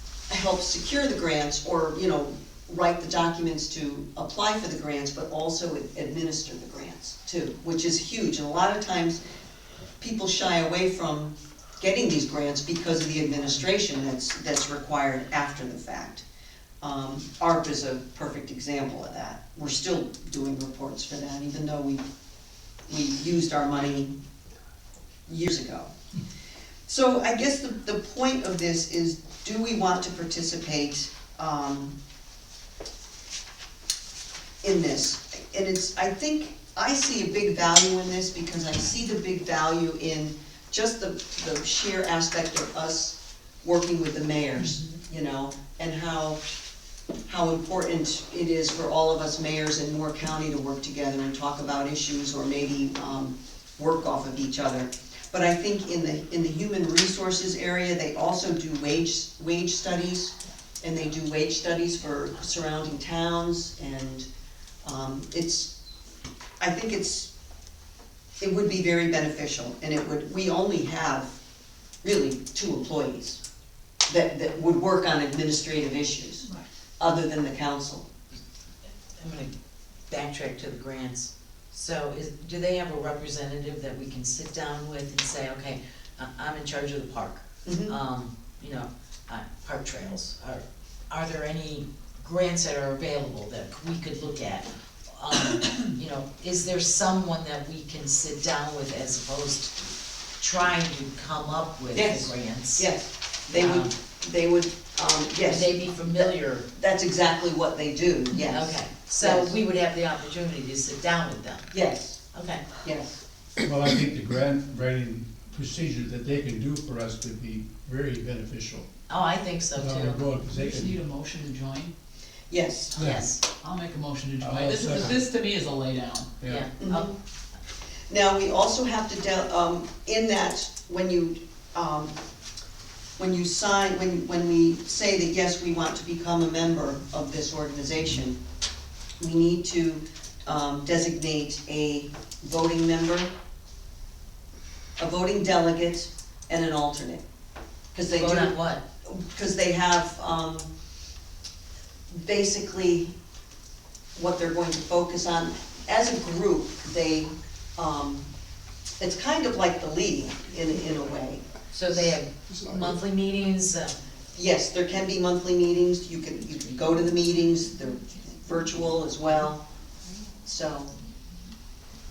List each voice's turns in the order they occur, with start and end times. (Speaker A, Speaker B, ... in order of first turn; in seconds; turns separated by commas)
Speaker A: 0.3-9.2, Speaker A: 10.0-16.2, Speaker A: 16.8-22.0, Speaker A: 22.9-24.1, Speaker A: 25.3-25.9, Speaker A: 26.9-32.0, Speaker A: 34.6-46.4, Speaker A: 47.3-64.3, Speaker A: 64.8-65.7, Speaker A: 66.6-67.3, Speaker A: 68.4-71.4, Speaker A: 72.0-73.4, Speaker A: 74.1-76.5, Speaker A: 77.0-78.1, Speaker B: 79.2-79.5, Speaker B: 80.1-99.9, Speaker A: 87.7-88.0, Speaker B: 100.4-102.9, Speaker A: 101.9-109.6, Speaker B: 103.5-103.9, Speaker B: 105.4-106.7, Speaker B: 108.3-111.7, Speaker A: 111.7-112.2, Speaker B: 112.3-112.7, Speaker A: 112.8-113.2, Speaker C: 113.6-118.9, Speaker B: 119.1-120.2, Speaker C: 119.8-121.0, Speaker D: 120.5-121.9, Speaker A: 122.5-123.0, Speaker B: 123.0-123.4, Speaker C: 123.0-123.3, Speaker D: 123.6-126.3, Speaker C: 124.4-125.2, Speaker C: 126.4-126.7, Speaker B: 126.5-127.1, Speaker A: 126.8-127.2, Speaker A: 128.1-132.2, Speaker A: 133.2-138.4, Speaker A: 139.2-143.3, Speaker A: 145.0-147.2, Speaker A: 147.9-150.7, Speaker B: 148.2-148.8, Speaker A: 152.1-153.2, Speaker A: 154.2-158.3, Speaker A: 159.0-162.1, Speaker B: 161.7-164.0, Speaker A: 164.3-169.6, Speaker A: 170.4-170.9